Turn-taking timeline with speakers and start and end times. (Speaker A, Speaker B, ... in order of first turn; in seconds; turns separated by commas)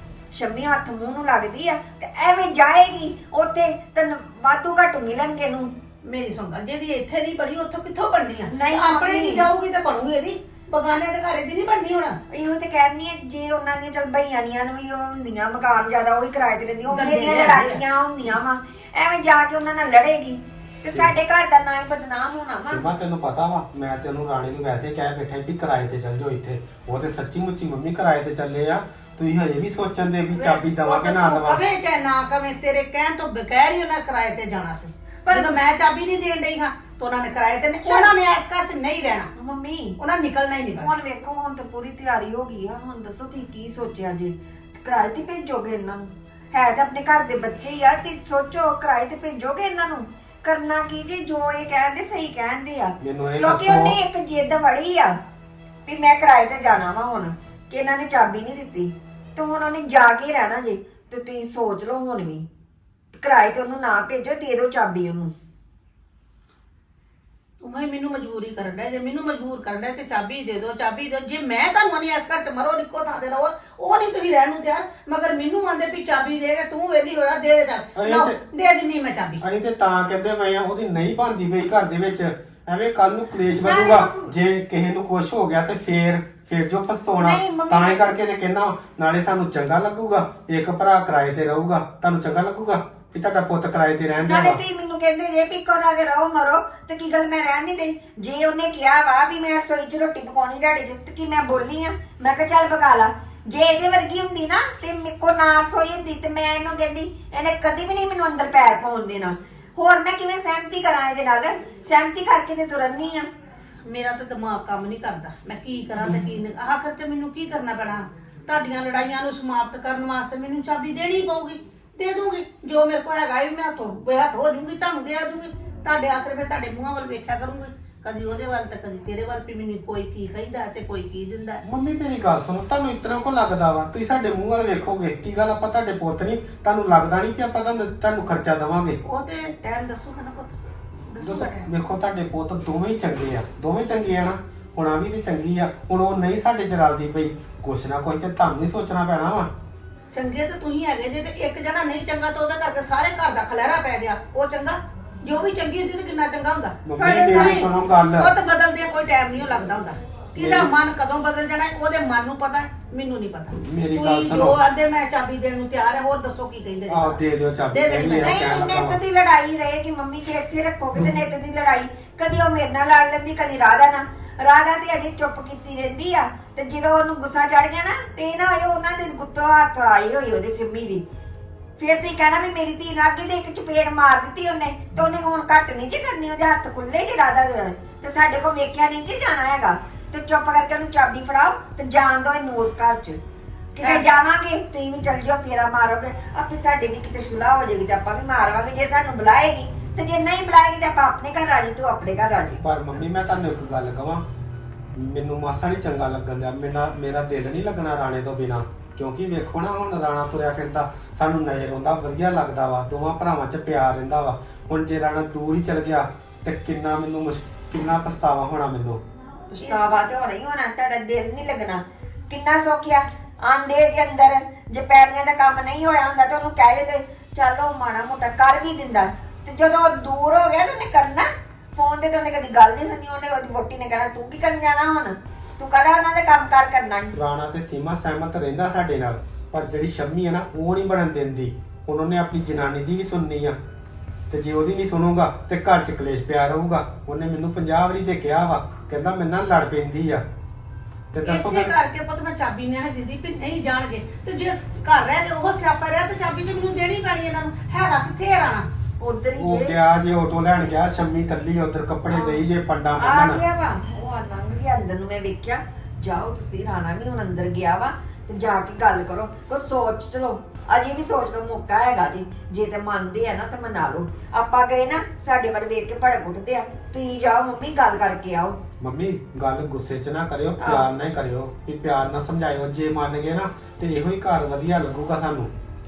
Speaker A: 0.3-5.8, Speaker B: 6.0-12.2, Speaker A: 8.5-9.5, Speaker A: 12.3-22.8, Speaker B: 16.9-17.8, Speaker C: 22.7-31.6, Speaker B: 30.4-39.3, Speaker A: 35.2-35.6, Speaker A: 37.8-38.2, Speaker A: 39.4-40.0, Speaker B: 40.0-40.9, Speaker A: 40.8-55.2, Speaker C: 53.0-54.0, Speaker A: 55.9-62.5, Speaker A: 63.1-65.3, Speaker B: 67.6-79.4, Speaker C: 78.0-78.4, Speaker C: 79.4-94.6, Speaker A: 83.7-84.3, Speaker A: 87.2-88.2, Speaker A: 94.2-113.3, Speaker B: 113.8-131.6, Speaker C: 131.6-139.0, Speaker B: 139.0-141.7, Speaker C: 141.2-149.5, Speaker B: 150.1-167.2, Speaker C: 156.8-158.3, Speaker A: 157.0-157.7, Speaker C: 160.4-160.7, Speaker C: 163.6-164.6, Speaker C: 166.9-169.0, Speaker B: 167.7-168.6, Speaker A: 168.2-181.0, Speaker A: 181.8-193.2, Speaker A: 193.8-202.6, Speaker B: 193.8-194.1, Speaker C: 202.6-204.2, Speaker C: 204.9-219.0, Speaker A: 219.5-237.1, Speaker C: 237.1-243.6, Speaker C: 244.3-250.2, Speaker C: 251.1-251.8, Speaker B: 251.2-258.7, Speaker A: 259.0-259.8, Speaker C: 259.4-263.4, Speaker A: 262.1-262.4, Speaker A: 263.0-278.6, Speaker C: 278.8-285.5, Speaker A: 280.6-280.9